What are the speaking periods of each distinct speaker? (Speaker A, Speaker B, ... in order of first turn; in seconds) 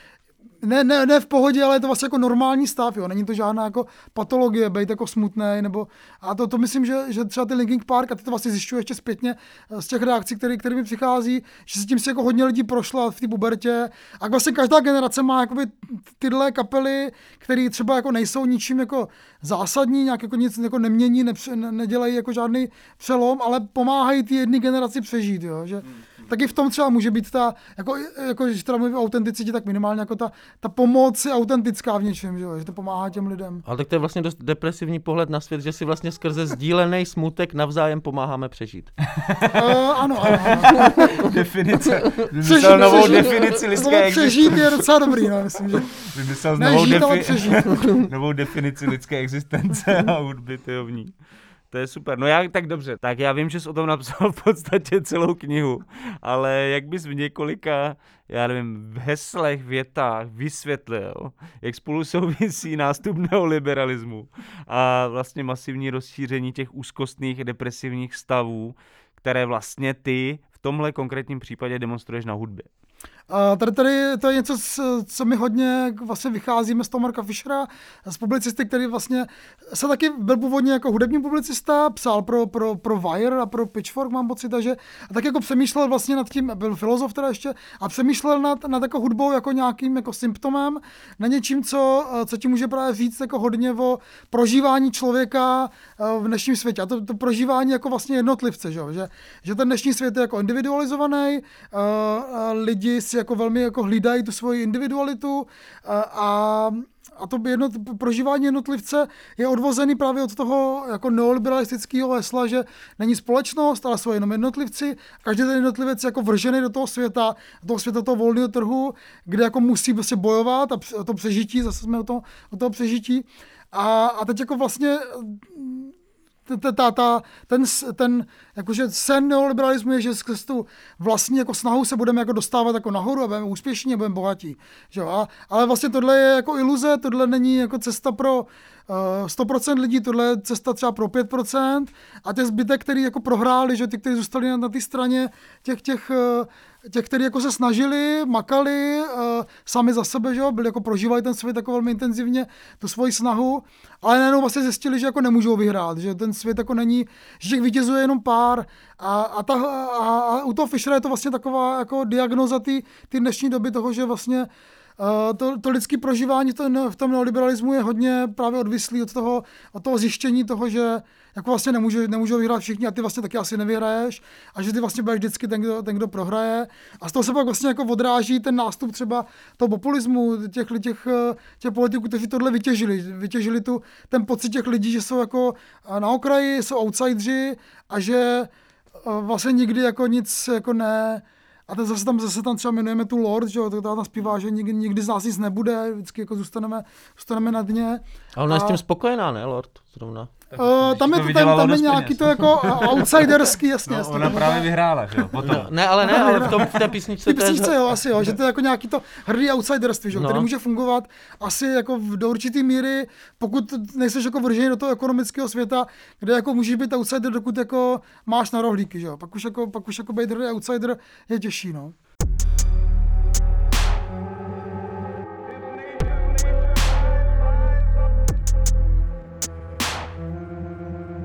Speaker A: 0.6-33.6, 39.5-41.1, 42.4-45.9, 46.6-47.7, 73.3-125.9, 126.5-164.5, 165.0-188.5, 189.0-198.8, 200.6-205.3, 206.0-221.9
Speaker B: 33.6-38.9, 42.8-43.2, 198.3-200.3, 205.4-207.8, 210.1-210.5
Speaker C: 39.1-39.7, 40.3-44.8, 46.0-51.1, 51.7-72.7, 200.5-203.3, 203.9-205.8, 206.5-206.8